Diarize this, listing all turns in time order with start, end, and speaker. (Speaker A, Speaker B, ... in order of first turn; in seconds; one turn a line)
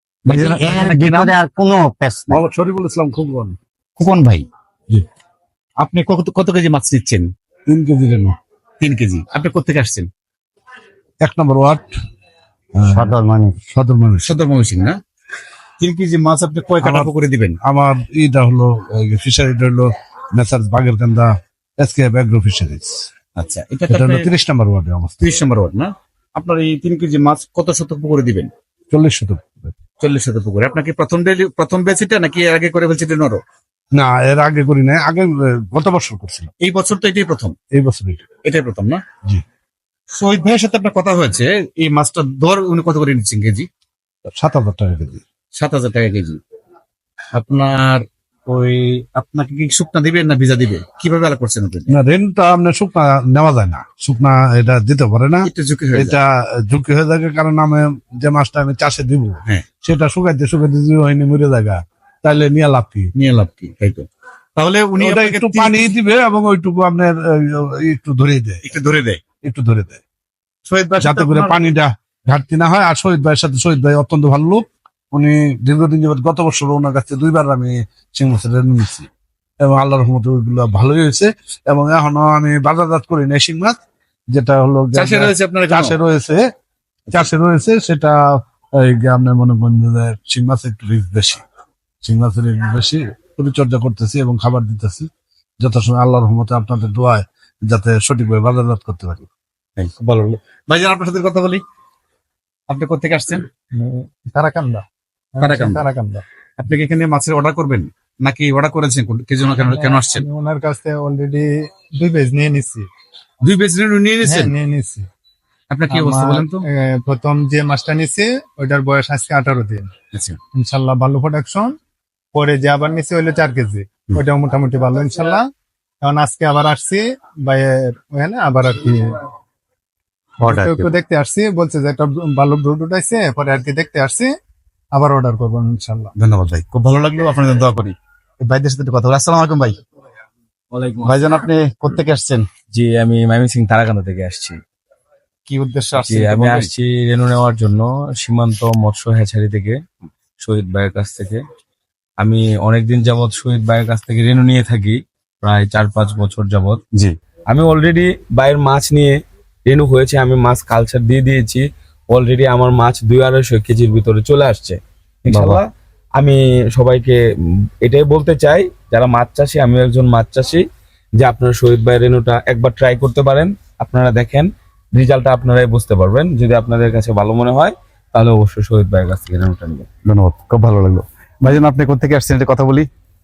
Speaker A: 0.3-1.3
Speaker B: 0.3-2.4
Speaker C: 2.3-3.6
Speaker A: 4.0-4.5
Speaker A: 5.8-7.3
Speaker C: 7.7-8.4
Speaker A: 8.8-10.1
Speaker C: 11.2-12.0
Speaker C: 12.8-13.2
Speaker B: 12.9-13.6
Speaker C: 13.7-14.3
Speaker A: 14.2-15.0
Speaker A: 15.8-17.6
Speaker C: 16.8-17.1
Speaker C: 17.6-23.1
Speaker A: 23.4-24.3
Speaker C: 23.9-25.2
Speaker A: 25.2-28.5
Speaker C: 28.9-29.7
Speaker A: 30.0-33.4
Speaker C: 33.9-36.5
Speaker A: 36.6-37.5
Speaker C: 37.7-38.3
Speaker A: 38.5-39.0
Speaker A: 40.1-43.7
Speaker C: 44.2-45.2
Speaker A: 45.5-46.4
Speaker A: 47.3-51.9
Speaker C: 51.9-63.1
Speaker A: 55.5-56.2
Speaker A: 63.1-66.0
Speaker C: 65.0-68.7
Speaker A: 68.7-69.2
Speaker C: 69.4-70.0
Speaker A: 70.7-71.6
Speaker C: 71.0-79.1
Speaker C: 79.6-83.8
Speaker C: 84.3-86.5
Speaker A: 84.9-86.0
Speaker C: 87.1-91.4
Speaker C: 92.0-99.3
Speaker A: 99.8-101.6
Speaker A: 102.7-103.5
Speaker D: 103.7-104.8
Speaker D: 105.3-106.2
Speaker A: 105.4-105.8
Speaker A: 106.6-110.3
Speaker D: 109.7-112.9
Speaker A: 113.4-114.5
Speaker D: 114.2-115.1
Speaker A: 115.7-116.7
Speaker D: 115.9-119.9
Speaker D: 120.5-121.8
Speaker D: 122.3-125.5
Speaker D: 126.0-129.2
Speaker A: 130.4-130.9
Speaker D: 130.4-134.3
Speaker D: 134.9-136.1
Speaker A: 136.2-139.8
Speaker E: 140.7-141.1
Speaker A: 141.0-142.5
Speaker E: 142.7-144.6
Speaker A: 145.5-146.7
Speaker E: 146.0-149.8
Speaker E: 150.4-151.4
Speaker E: 152.2-156.8
Speaker E: 157.5-167.2
Speaker A: 165.3-165.6
Speaker E: 167.8-179.9
Speaker A: 180.1-182.9